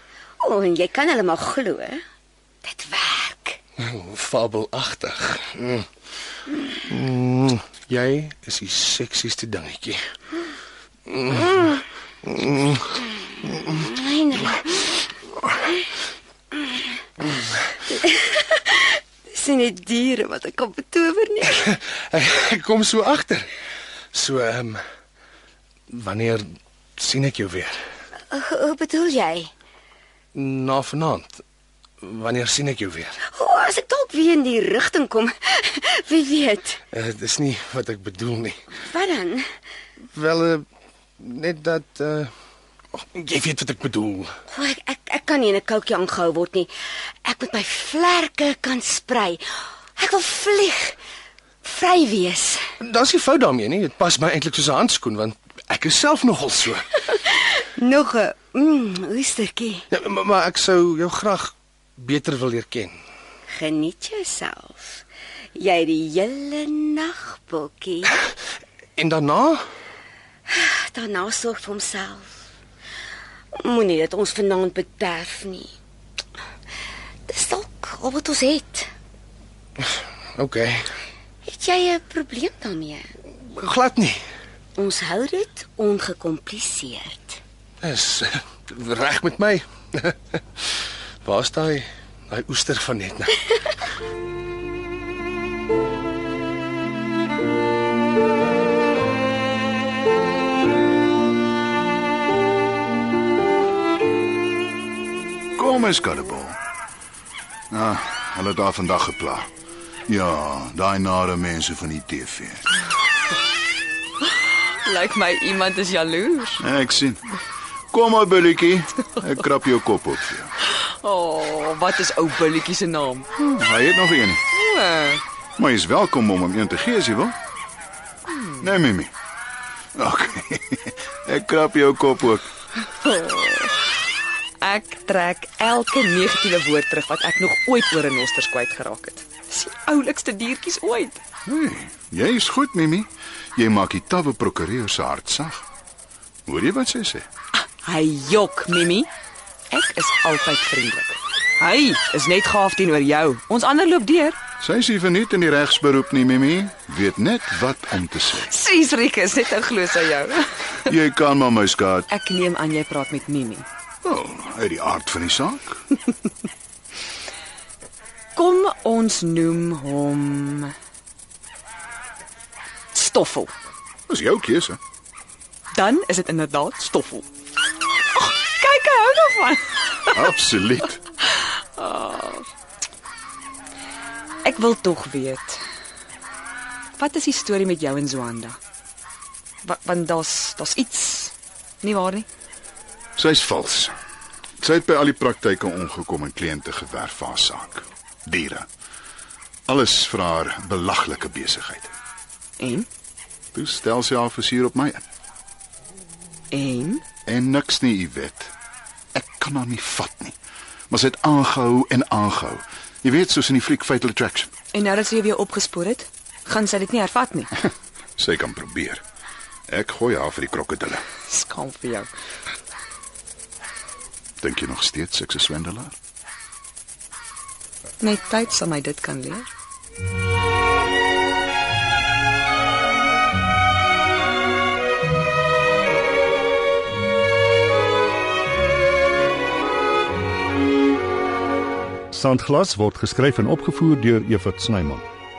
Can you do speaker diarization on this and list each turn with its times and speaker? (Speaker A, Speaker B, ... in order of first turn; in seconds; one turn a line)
Speaker A: 0.4-2.0
Speaker A: 2.6-3.6
Speaker B: 3.8-5.9
Speaker B: 6.8-10.0
Speaker B: 11.1-13.0
Speaker A: 13.6-15.0
Speaker A: 17.9-21.7
Speaker B: 21.6-23.5
Speaker B: 24.1-24.8
Speaker B: 25.9-26.4
Speaker B: 27.0-27.8
Speaker A: 28.3-29.5
Speaker B: 30.3-31.4
Speaker B: 32.0-33.2
Speaker A: 33.3-36.8
Speaker B: 36.9-38.6
Speaker A: 38.7-39.5
Speaker B: 40.1-40.6
Speaker B: 41.2-42.3
Speaker B: 43.0-44.3
Speaker A: 44.5-46.7
Speaker A: 47.2-49.4
Speaker A: 50.0-51.0
Speaker A: 51.6-52.6
Speaker B: 52.8-57.0
Speaker A: 57.1-59.9
Speaker B: 59.9-63.0
Speaker A: 63.5-65.0
Speaker A: 65.5-68.3
Speaker B: 69.0-69.6
Speaker A: 70.5-72.3
Speaker A: 73.6-75.7
Speaker A: 77.3-78.9
Speaker B: 79.8-80.9
Speaker A: 81.5-83.1
Speaker B: 83.5-84.2
Speaker A: 84.8-87.4
Speaker B: 87.8-90.4
Speaker B: 91.2-93.5
Speaker C: 105.5-106.6
Speaker C: 107.7-109.5
Speaker C: 110.1-112.6
Speaker D: 114.4-116.6
Speaker C: 116.6-117.4
Speaker C: 117.9-120.5
Speaker D: 120.6-123.3
Speaker C: 123.3-124.4
Speaker D: 124.5-125.2
Speaker C: 125.6-127.3
Speaker D: 128.3-128.6
Speaker C: 128.6-129.1
Speaker C: 129.9-132.5
Speaker D: 133.0-133.9
Speaker D: 134.6-141.2
Speaker C: 141.4-145.7
Speaker C: 146.4-147.2
Speaker D: 147.8-149.1
Speaker D: 149.7-154.4
Speaker C: 154.6-158.5
Speaker D: 158.4-160.5
Speaker C: 160.8-162.1
Speaker D: 162.1-163.7
Speaker C: 164.0-165.8
Speaker D: 168.3-170.7
Speaker D: 172.9-173.5
Speaker C: 174.1-174.8
Speaker D: 175.7-177.3
Speaker D: 178.1-180.2
Speaker C: 180.1-181.0
Speaker D: 181.3-182.5
Speaker D: 184.4-185.6
Speaker D: 187.0-188.6
Speaker D: 189.6-192.3
Speaker C: 193.2-193.9
Speaker C: 194.6-198.7
Speaker C: 199.7-201.9
Speaker D: 202.6-202.9
Speaker C: 203.5-205.0
Speaker D: 206.5-207.0
Speaker C: 207.2-208.5
Speaker C: 209.1-210.3
Speaker C: 210.9-214.5
Speaker D: 214.7-217.5
Speaker C: 218.2-219.0
Speaker C: 219.7-221.0
Speaker D: 221.3-222.1
Speaker C: 224.4-225.9
Speaker D: 228.0-229.5
Speaker E: 242.1-245.1